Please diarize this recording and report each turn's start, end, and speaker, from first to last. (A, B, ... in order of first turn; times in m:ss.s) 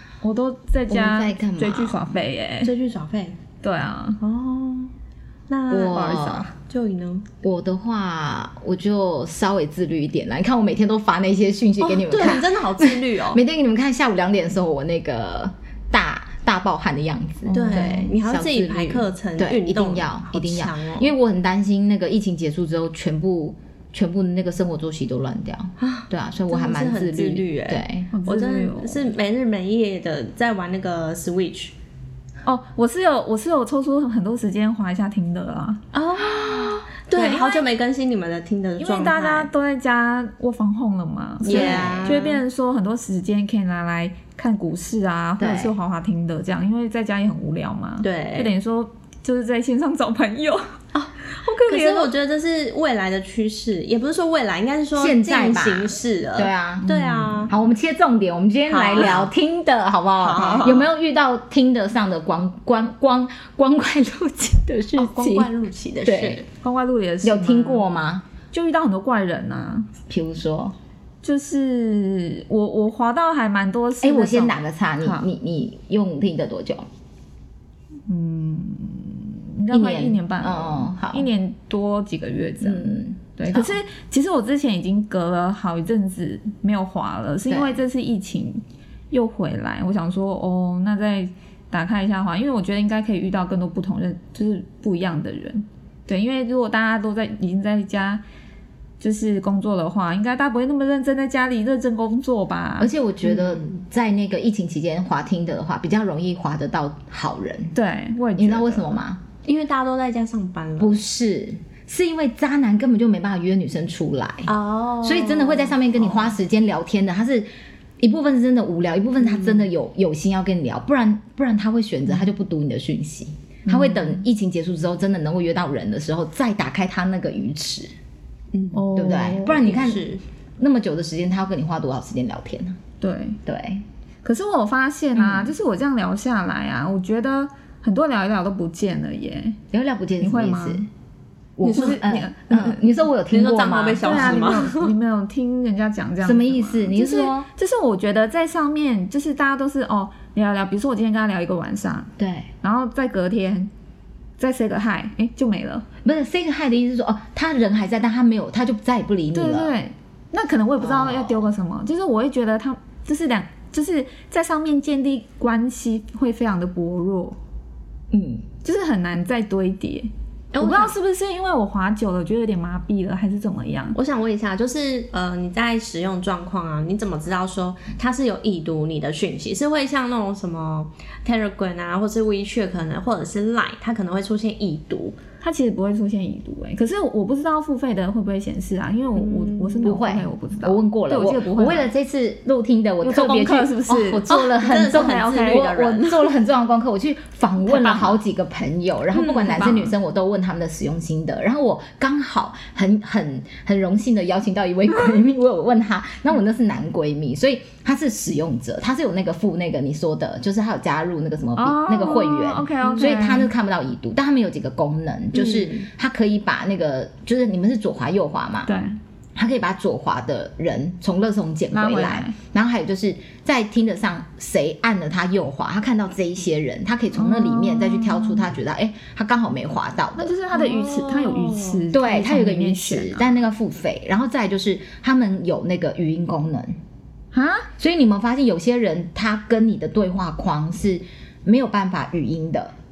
0:00.2-0:02.7 A
0:00.9-0:02.0 B
0:02.6-0:03.4 C
0:03.6-0:04.2 A
0:04.2-0:04.9 C
0:05.5-0:07.2 C
0:05.7-0:06.4 B
0:05.9-0:06.5 A
0:07.4-0:28.1 B
0:11.8-0:13.4 C
0:17.5-0:18.1 A
0:17.5-0:21.1 C
0:25.8-0:31.7 C
0:28.1-0:29.1 A
0:32.4-0:35.8 A
0:36.0-0:39.5 C
0:36.2-0:36.7 B
0:37.2-0:37.6 A
0:38.8-0:52.1 A
0:41.4-0:42.2 B
0:41.4-0:42.4 C
0:45.4-0:45.7 B
0:48.0-0:48.5 C
0:51.7-0:57.5 C
0:55.0-1:05.5 B
0:56.9-0:57.4 A
0:58.7-0:59.3 C
1:00.2-1:00.9 C
1:05.0-1:06.4 C
1:06.0-1:06.4 B
1:06.6-1:07.8 A
1:07.2-1:08.3 B
1:08.5-1:09.9 A
1:10.1-1:10.8 B
1:11.2-1:15.3 A
1:14.0-1:16.9 B
1:18.1-1:38.2 A
1:19.7-1:21.3 B
1:22.6-1:23.8 B
1:27.5-1:27.8 B
1:39.0-1:42.9 A
1:42.8-1:47.8 B
1:47.7-1:49.0 A
1:48.4-1:49.2 B
1:49.4-1:51.0 C
1:50.8-1:54.5 B
1:54.5-1:56.3 C
1:55.0-1:57.5 B
1:58.0-2:07.9 B
1:59.3-1:59.7 C
2:03.7-2:04.2 A
2:08.5-2:08.9 C
2:08.7-2:09.8 A
2:08.9-2:10.1 B
2:09.4-2:10.2 C
2:10.6-2:12.8 B
2:13.0-2:13.4 A
2:13.5-2:13.8 B
2:14.2-2:19.6 A
2:15.2-2:15.5 B
2:19.7-2:20.9 B
2:20.2-2:20.9 A
2:21.6-2:24.7 B
2:21.6-2:22.8 A
2:21.7-2:22.0 C
2:23.3-2:25.0 C
2:24.0-2:32.1 A
2:26.2-2:27.5 B
2:32.2-2:32.5 B
2:32.6-2:33.7 A
2:34.4-2:35.9 A
2:36.0-2:39.7 B
2:39.3-2:47.4 A
2:40.8-2:41.4 B
2:48.1-2:48.4 B
2:48.6-2:54.0 A
2:50.5-2:50.9 C
2:54.0-3:05.2 C
3:05.4-3:11.9 A
3:09.2-3:10.0 C
3:09.8-3:38.7 B
3:13.0-3:15.8 A
3:14.3-3:16.3 C
3:17.6-3:18.2 A
3:19.1-3:19.8 C
3:19.4-3:19.9 A
3:31.6-3:33.5 A
3:35.3-3:35.9 C
3:38.7-3:39.0 A
3:39.4-3:50.4 B
3:41.7-3:42.4 A
3:47.1-3:48.5 A
3:50.2-3:53.3 A
3:50.5-3:51.8 C
3:51.9-3:56.8 B
3:57.3-3:57.7 A
3:57.8-4:02.7 B